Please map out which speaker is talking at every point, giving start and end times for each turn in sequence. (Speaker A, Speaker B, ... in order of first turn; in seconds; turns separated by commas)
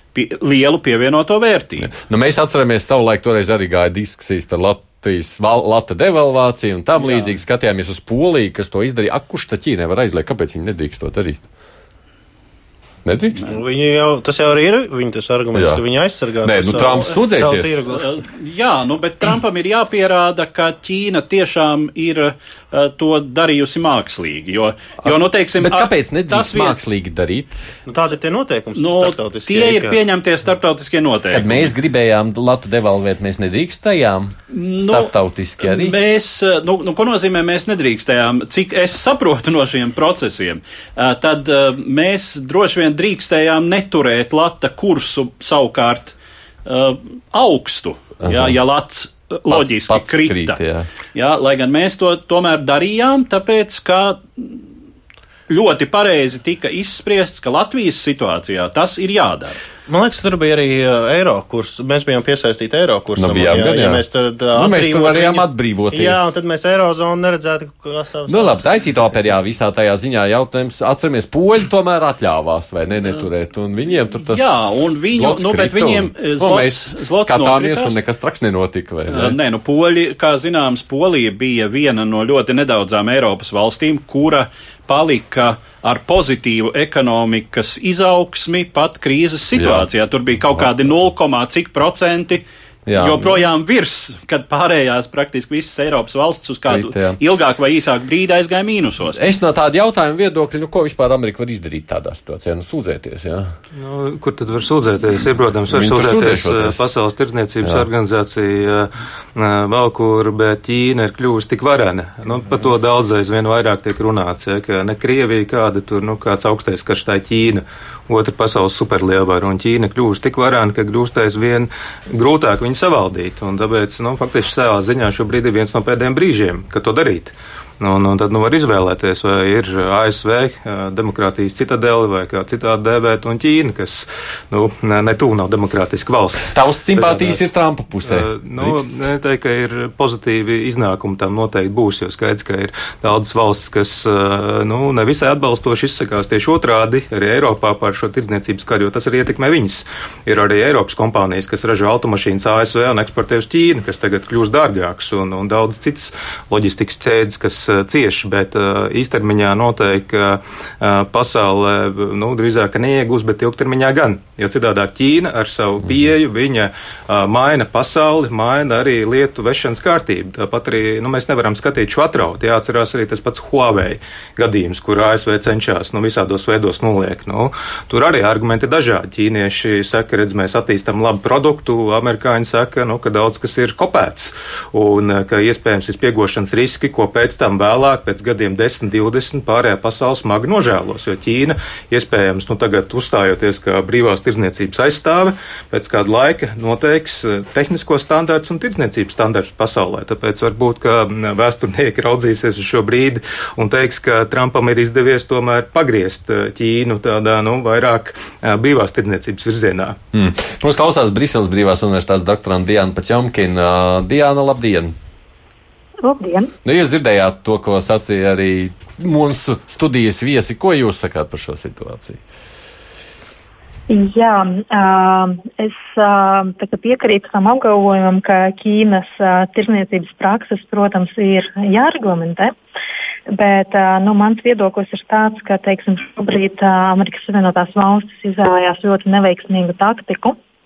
Speaker A: 0.1-1.9, Speaker B: 1.8-11.4, Speaker B: 13.1-13.4, Speaker C: 13.4-18.1, Speaker B: 15.6-15.8, Speaker B: 16.4-17.8, Speaker A: 17.9-26.8, Speaker B: 25.1-27.6, Speaker C: 27.9-30.0, Speaker A: 28.8-31.7, Speaker B: 31.3-36.0, Speaker A: 34.5-50.6, Speaker B: 48.2-48.6, Speaker B: 49.5-50.9, Speaker A: 51.1-54.6, Speaker A: 55.5-59.6, Speaker C: 59.9-68.6, Speaker B: 63.2-64.0, Speaker B: 64.5-66.4, Speaker B: 68.3-79.4, Speaker A: 74.3-78.0, Speaker A: 79.1-99.2, Speaker B: 89.5-89.9, Speaker B: 90.5-91.0, Speaker B: 92.9-93.4, Speaker B: 96.7-97.2, Speaker B: 99.1-103.5, Speaker D: 103.8-137.5, Speaker B: 105.7-106.8, Speaker B: 136.4-138.9, Speaker D: 138.1-210.0, Speaker B: 210.1-215.0, Speaker E: 216.0-216.5, Speaker B: 216.6-222.2, Speaker E: 223.9-232.5, Speaker E: 233.3-240.4